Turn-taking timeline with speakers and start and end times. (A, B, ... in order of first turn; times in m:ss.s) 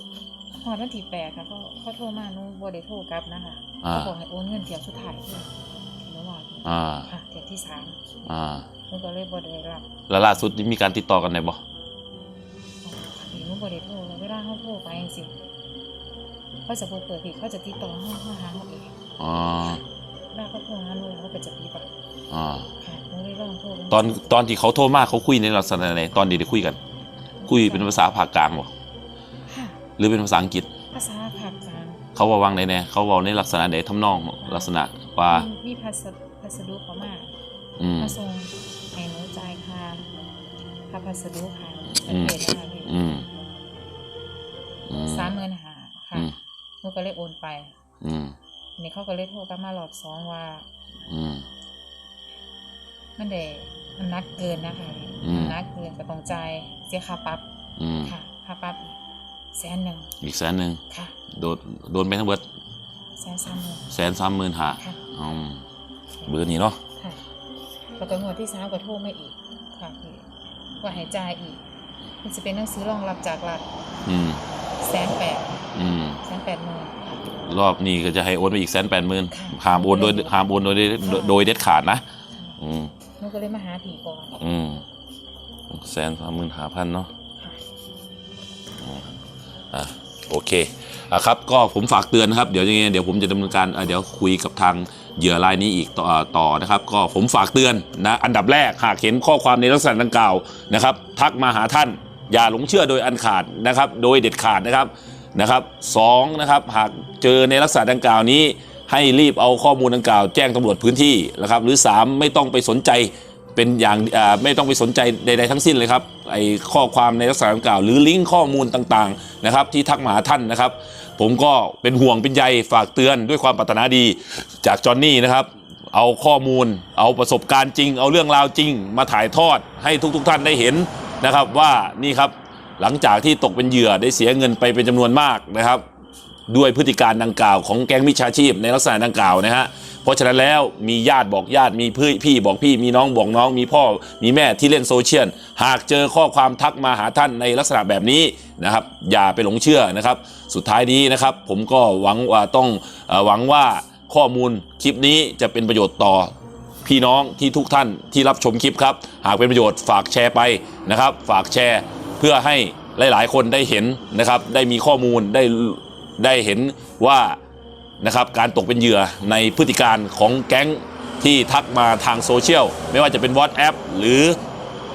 0:00.5-0:08.0 A
0:03.8-0:04.1 B
0:06.6-0:07.1 B
0:08.2-0:08.7 B
0:08.9-0:09.9 A
0:10.1-0:11.6 B
0:12.8-0:15.3 A
0:16.7-0:19.0 A
0:19.2-0:19.8 B
0:19.7-0:21.9 A
0:22.3-0:22.7 B
0:22.8-0:24.4 A
0:23.9-0:26.8 B
0:27.4-0:28.0 A
0:27.5-0:28.7 B
0:29.5-0:29.8 A
0:30.0-0:30.7 B
0:30.9-0:32.0 A
0:32.2-0:35.5 B
0:34.4-0:34.7 A
0:35.3-0:37.4 A
0:37.8-0:38.2 B
0:38.0-0:40.1 A
0:40.9-0:43.0 A
0:41.9-0:43.3 B
0:44.9-0:45.3 B
0:45.1-0:46.3 A
0:46.8-0:47.8 A
0:48.0-0:48.4 B
0:48.8-0:50.7 A
0:51.1-0:51.5 B
0:53.2-0:57.5 A
0:55.2-0:55.6 B
0:57.8-0:58.1 B
0:58.0-0:59.0 A
0:59.5-1:00.1 A
1:00.2-1:02.4 B
1:00.9-1:01.2 A
1:03.2-1:03.9 A
1:03.9-1:05.6 B
1:06.3-1:06.8 B
1:07.0-1:07.2 A
1:08.0-1:10.3 A
1:10.8-1:11.6 A
1:12.2-1:13.7 A
1:14.0-1:14.4 B
1:14.8-1:15.7 A
1:15.7-1:16.2 B
1:16.2-1:17.4 A
1:17.4-1:22.0 B
1:19.3-1:20.3 A
1:21.0-1:21.4 A
1:22.6-1:22.9 B
1:23.2-1:24.4 A
1:24.4-1:24.8 B
1:25.7-1:27.1 B
1:28.8-1:29.1 B
1:29.7-2:15.8 B
2:16.5-2:36.3 B
2:36.8-2:47.4 B
2:48.0-2:54.4 B